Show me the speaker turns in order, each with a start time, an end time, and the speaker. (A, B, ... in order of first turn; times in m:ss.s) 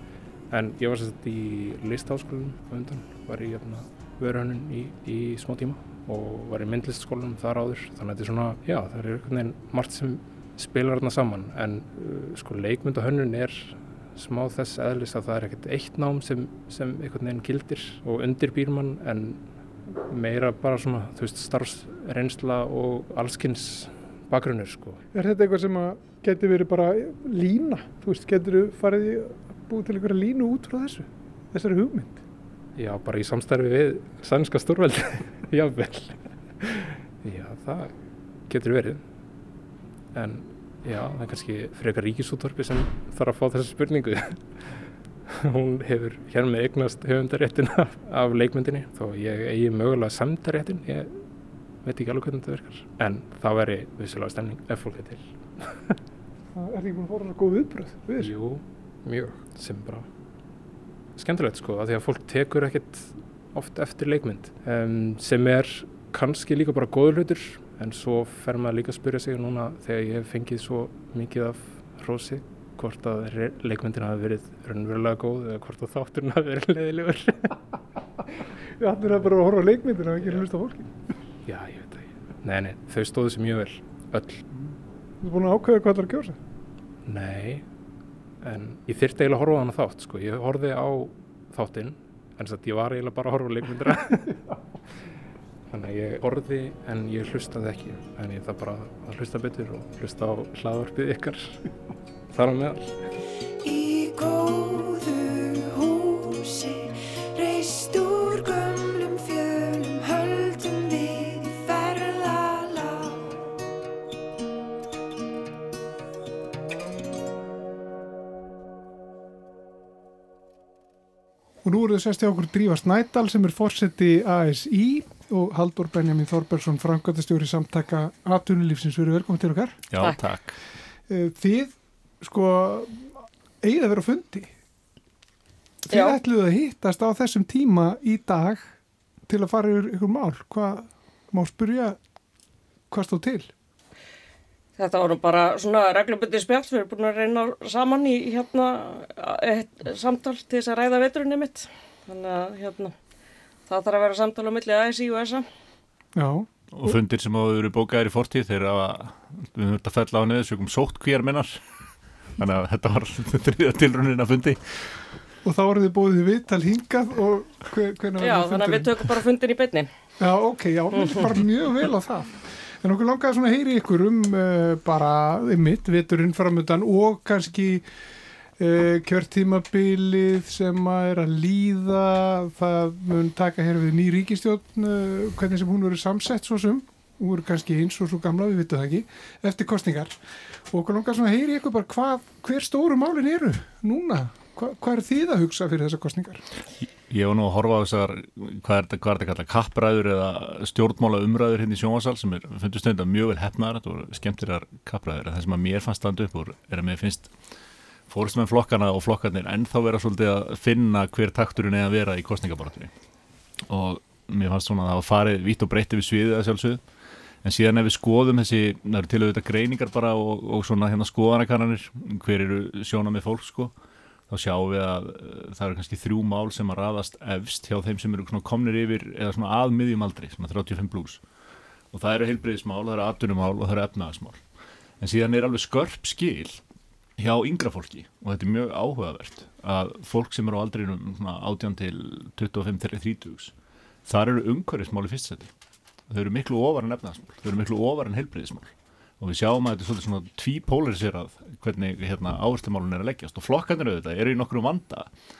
0:00.5-0:25.0 A
0:25.1-0:32.2 B
0:32.8-0:39.0 A
0:40.1-0:44.8 A
0:45.3-0:51.2 A
0:51.8-0:56.0 A
0:56.5-0:58.3 B
0:58.2-1:00.1 A
1:01.2-1:17.5 A
1:18.4-1:21.0 B
1:21.4-1:24.5 A
1:25.2-1:26.4 B
1:27.0-1:27.6 A
1:28.4-1:34.4 A
1:35.7-1:41.6 A
1:42.3-1:43.0 A
1:43.6-1:53.4 C
2:01.6-2:09.8 B
2:09.9-2:10.6 D
2:11.1-2:14.5 B
2:15.8-2:18.7 B
2:15.9-2:16.2 E
2:19.3-2:22.0 B
2:22.9-2:23.5 B
2:24.8-2:32.9 E
2:33.7-2:35.4 E
2:36.1-2:36.9 B
2:36.7-2:41.6 D
2:42.4-2:44.8 D
2:45.4-2:48.9 B
2:48.2-2:49.9 E
2:50.2-2:57.8 B
2:58.6-3:10.2 B
3:10.7-3:16.4 B
3:16.8-3:27.3 D
3:28.1-3:32.9 D
3:33.7-3:36.8 D
3:37.4-3:43.7 D
3:44.3-3:51.2 D
3:51.9-3:54.4 D
3:55.0-3:56.6 D
3:57.2-4:03.5 D
4:04.0-4:05.5 D
4:06.1-4:15.1 D